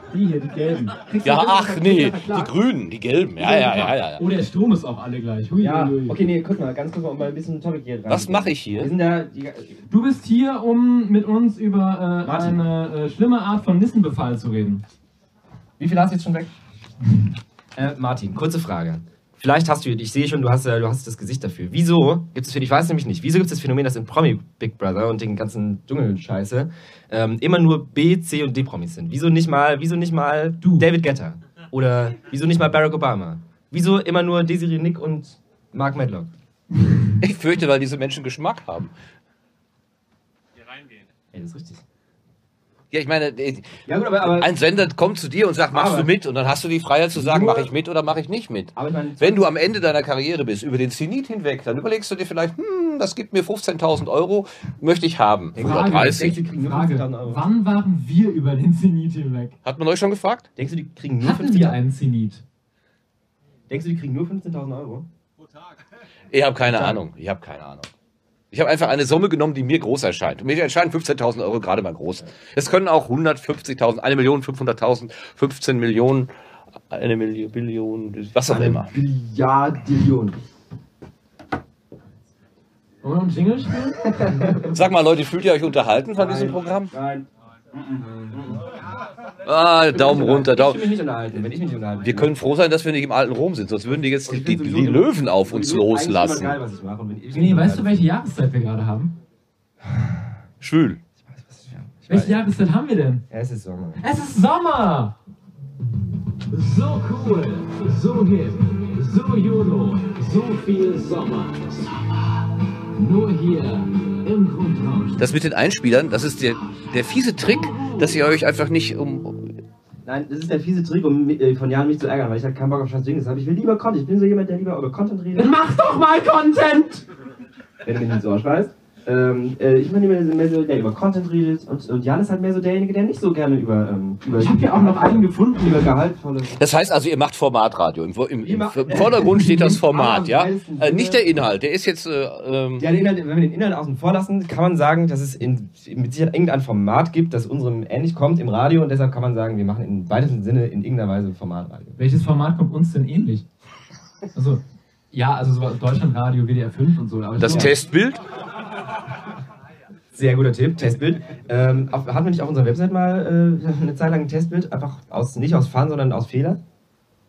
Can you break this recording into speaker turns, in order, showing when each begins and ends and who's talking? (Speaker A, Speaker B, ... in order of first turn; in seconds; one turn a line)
Speaker A: 0.1-2.5
Speaker B: 1.2-4.2
Speaker A: 3.4-6.2
Speaker C: 5.6-9.8
Speaker B: 8.1-8.9
Speaker A: 9.9-14.8
Speaker C: 12.2-12.6
Speaker C: 15.8-16.5
Speaker C: 17.8-36.3
Speaker A: 30.6-30.9
Speaker B: 37.2-38.9
Speaker C: 41.3-41.8
Speaker B: 42.9-43.7
Speaker C: 43.9-44.5
Speaker B: 44.2-56.4
Speaker C: 45.7-46.1
Speaker C: 47.1-47.7
Speaker C: 48.8-49.5
Speaker C: 55.5-57.5
Speaker A: 55.6-59.5
Speaker B: 59.6-60.5
Speaker C: 60.5-61.8
Speaker A: 61.2-62.4
Speaker C: 63.7-65.1
Speaker B: 66.3-67.9
Speaker C: 66.7-67.0
Speaker B: 68.5-76.3
Speaker B: 76.9-78.9
Speaker C: 78.5-80.4
Speaker A: 83.0-84.8
Speaker B: 84.7-86.9
Speaker C: 86.1-87.3
Speaker C: 87.8-88.6
Speaker B: 89.4-90.9
Speaker C: 89.9-92.4
Speaker B: 92.0-96.6
Speaker C: 94.2-98.0
Speaker A: 97.3-99.1
Speaker B: 100.6-101.0
Speaker C: 101.2-102.4
Speaker A: 102.1-103.2
Speaker C: 103.3-104.0
Speaker A: 104.0-105.2
Speaker A: 106.5-112.0
Speaker A: 112.9-115.3
Speaker B: 115.2-119.5
Speaker A: 117.4-118.1
Speaker C: 120.0-125.5
Speaker A: 125.3-127.0
Speaker C: 127.8-136.6
Speaker A: 134.3-135.9
Speaker B: 136.5-142.8
Speaker C: 138.4-141.3
Speaker C: 142.8-152.0
Speaker A: 152.0-153.4
Speaker A: 154.3-157.8
Speaker B: 157.4-158.2
Speaker C: 157.5-157.7
Speaker C: 160.1-166.6